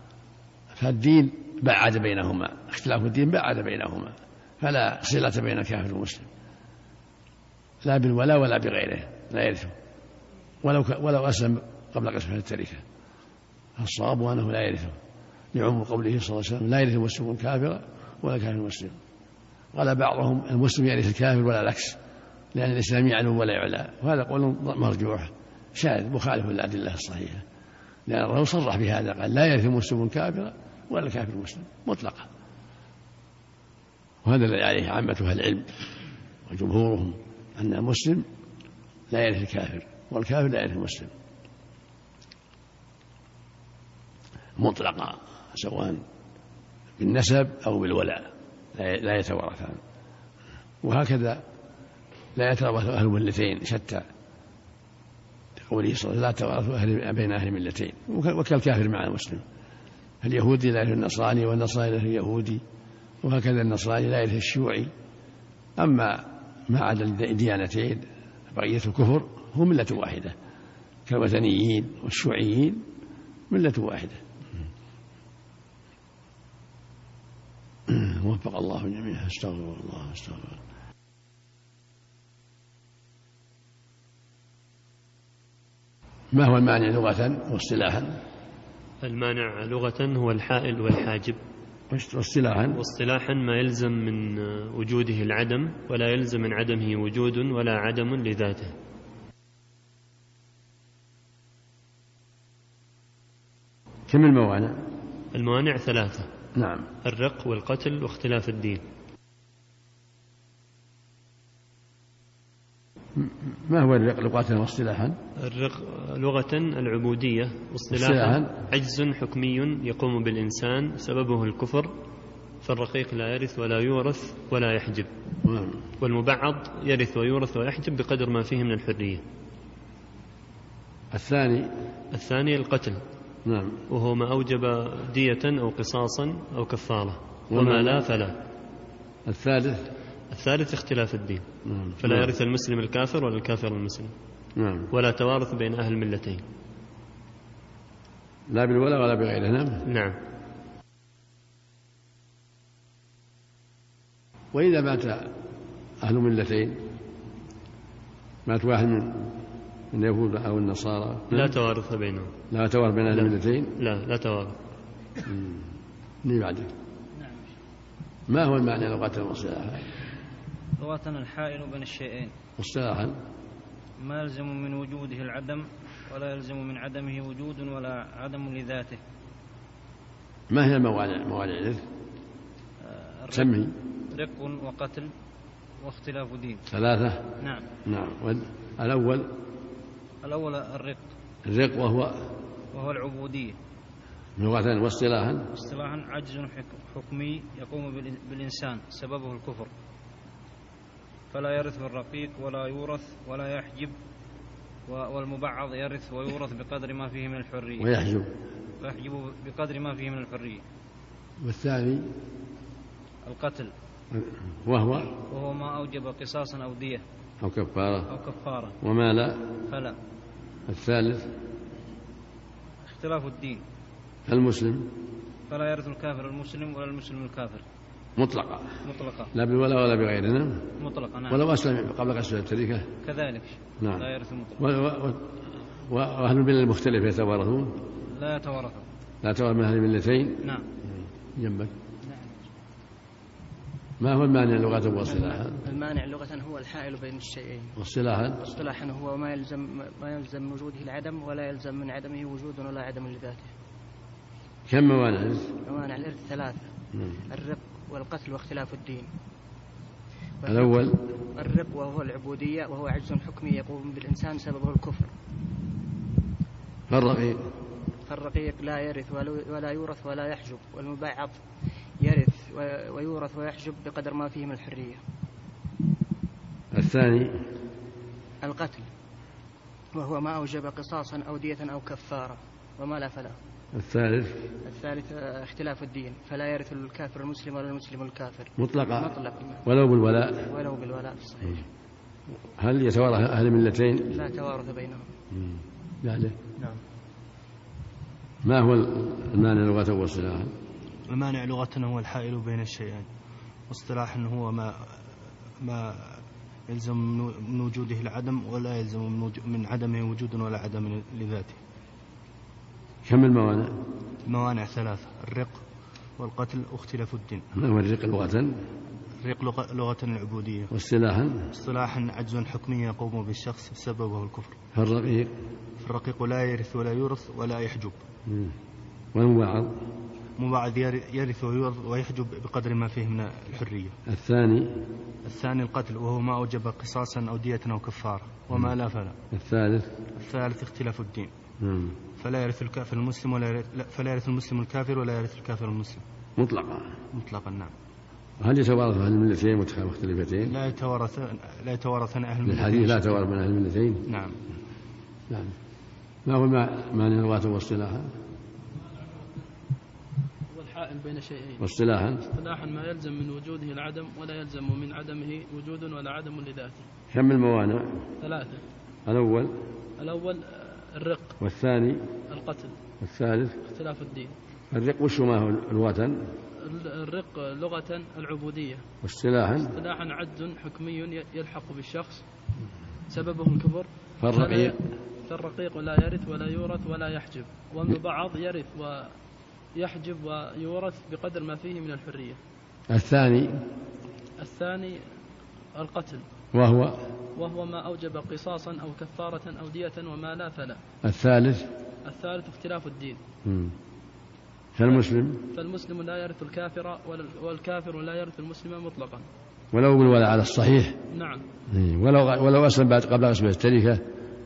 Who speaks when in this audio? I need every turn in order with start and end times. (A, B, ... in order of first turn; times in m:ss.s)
0:00.7-0:06.3 A
0:07.8-0:09.7 A
0:10.6-0:12.8 A
0:13.8-0:15.0 A
0:15.5-0:19.0 A
0:19.7-0:22.0 A
0:22.5-0:27.4 A
0:28.1-0:32.3 A
0:34.2-0:35.7 A
0:36.5-0:38.2 A
0:39.1-0:41.1 A
0:44.6-0:46.0 A
0:47.0-0:49.8 A
0:50.8-0:51.4 A
0:52.4-0:54.0 A
0:55.6-0:59.4 A
1:00.2-1:02.6 A
1:03.2-1:04.9 A
1:05.8-1:10.3 A
1:11.1-1:12.8 A
1:13.5-1:14.2 A
1:17.9-1:20.6 A
1:26.3-1:28.2 A
1:29.0-1:31.4 B
1:31.9-1:32.8 A
1:32.7-1:38.8 B
1:44.1-1:44.8 A
1:45.3-1:46.3 B
1:46.5-1:46.9 A
1:47.0-1:48.8 B
1:53.2-1:55.2 A
1:55.4-2:01.9 B
1:57.9-1:58.5 A
2:02.6-2:05.1 B
2:05.4-2:05.8 A
2:06.0-2:09.2 B
2:11.1-2:11.7 A
2:12.1-2:13.0 B
2:13.4-2:13.8 A
2:13.9-2:18.4 B
2:17.5-2:18.0 A
2:19.2-2:19.9 A
2:20.3-2:21.4 B
2:21.6-2:22.3 A
2:22.0-2:24.1 B
2:24.6-2:24.9 A
2:24.9-2:26.4 B
2:28.5-2:29.8 A
2:29.8-2:30.2 B
2:34.5-2:35.3 A
2:36.0-2:36.8 A
2:38.4-2:39.4 A
2:39.9-2:41.6 A
2:41.3-2:42.3 B
2:42.5-2:43.8 A
2:43.2-2:44.6 B
2:45.2-2:45.7 A
2:46.2-2:46.7 A
2:47.1-2:47.5 C
2:48.3-2:49.9 A
2:50.8-2:52.3 C
2:52.6-2:53.2 A
2:54.0-2:59.0 C
3:00.5-3:01.8 A
3:02.8-3:03.5 C
3:03.3-3:03.7 A
3:04.1-3:05.1 C
3:05.8-3:06.6 C
3:06.7-3:07.3 A
3:07.4-3:07.7 C
3:07.8-3:09.3 A
3:10.2-3:11.1 C
3:11.4-3:12.3 A
3:12.7-3:13.6 C
3:14.4-3:15.5 A
3:15.5-3:19.7 C
3:21.3-3:24.0 C
3:24.9-3:27.9 C
3:27.8-3:28.3 A
3:28.8-3:30.6 C
3:31.4-3:32.0 A
3:33.2-3:33.7 C
3:34.1-3:35.1 A
3:35.3-3:37.0 C
3:37.4-3:38.1 A
3:38.1-3:38.8 C
3:38.8-3:39.5 A
3:39.7-3:40.0 C
3:40.7-3:41.3 A
3:42.8-3:43.6 C
3:44.3-3:44.9 A
3:45.5-3:47.6 C
3:48.2-3:48.8 A
3:48.8-3:49.3 C
3:49.3-3:50.7 A
3:50.8-3:51.4 C
3:51.3-3:52.9 A
3:53.0-3:54.7 C
3:53.8-3:54.1 A
3:54.6-3:55.4 A
3:55.9-3:57.8 A
3:58.0-3:58.8 C
3:59.2-4:00.5 A
4:01.3-4:01.7 A
4:04.0-4:05.6 A
4:05.0-4:07.8 D
4:07.8-4:08.4 A
4:08.4-4:13.5 D
4:14.7-4:15.5 A
4:15.6-4:16.7 D
4:17.3-4:19.1 D
4:20.4-4:25.1 D
4:20.5-4:21.0 A
4:26.9-4:27.4 A
4:28.0-4:31.4 D
4:32.0-4:35.0 D
4:36.7-4:37.4 A
4:38.4-4:38.9 D
4:39.9-4:43.4 D
4:43.7-4:44.4 A
4:44.6-4:49.6 D
4:48.6-4:49.1 A
4:49.6-4:50.5 A
4:50.4-4:51.6 D
4:52.6-4:54.1 A
4:54.0-4:55.1 D
4:55.3-4:56.4 A
4:58.4-5:00.5 A
5:01.1-5:03.1 E
5:03.7-5:05.0 E
5:05.6-5:11.6 E
5:13.0-5:13.8 A
5:14.2-5:15.6 E
5:16.2-5:17.4 E
5:17.6-5:18.5 A
5:19.2-5:20.7 E
5:20.7-5:21.5 A
5:21.5-5:24.6 E
5:24.7-5:25.3 A
5:25.8-5:28.0 E
5:28.3-5:28.5 A
5:29.1-5:29.8 A
5:30.4-5:34.0 E
5:34.0-5:34.8 A
5:35.2-5:39.2 E
5:39.3-5:39.9 A
5:40.1-5:41.3 E
5:41.6-5:42.0 A
5:42.2-5:46.0 E
5:46.4-5:46.9 A
5:47.1-5:47.7 E
5:48.4-5:50.5 A
5:50.4-5:53.2 E
5:52.4-5:54.0 A
5:54.1-5:54.4 E
5:55.3-5:55.5 A
5:56.2-5:58.1 A
6:00.5-6:01.6 F
6:01.6-6:02.3 A
6:02.3-6:06.8 F
6:07.1-6:08.1 A
6:08.2-6:08.6 F
6:09.0-6:09.6 A
6:10.0-6:11.4 F
6:11.4-6:12.0 A
6:12.3-6:12.8 F
6:13.0-6:13.6 A
6:13.6-6:14.4 F
6:14.7-6:16.2 A
6:16.6-6:18.8 F
6:19.0-6:19.7 A
6:19.6-6:22.2 F
6:23.1-6:29.1 F
6:24.2-6:24.8 A
6:29.8-6:32.4 F
6:32.9-6:33.6 A
6:34.4-6:35.0 F
6:35.8-6:36.2 F
6:36.5-6:37.1 A
6:37.3-6:40.8 F
6:41.0-6:41.7 A
6:42.0-6:43.2 F
6:43.4-6:43.7 A
6:44.8-6:45.4 A
6:44.8-6:49.3 F
6:49.7-6:51.0 A
6:51.1-6:51.4 F
6:51.7-6:54.0 A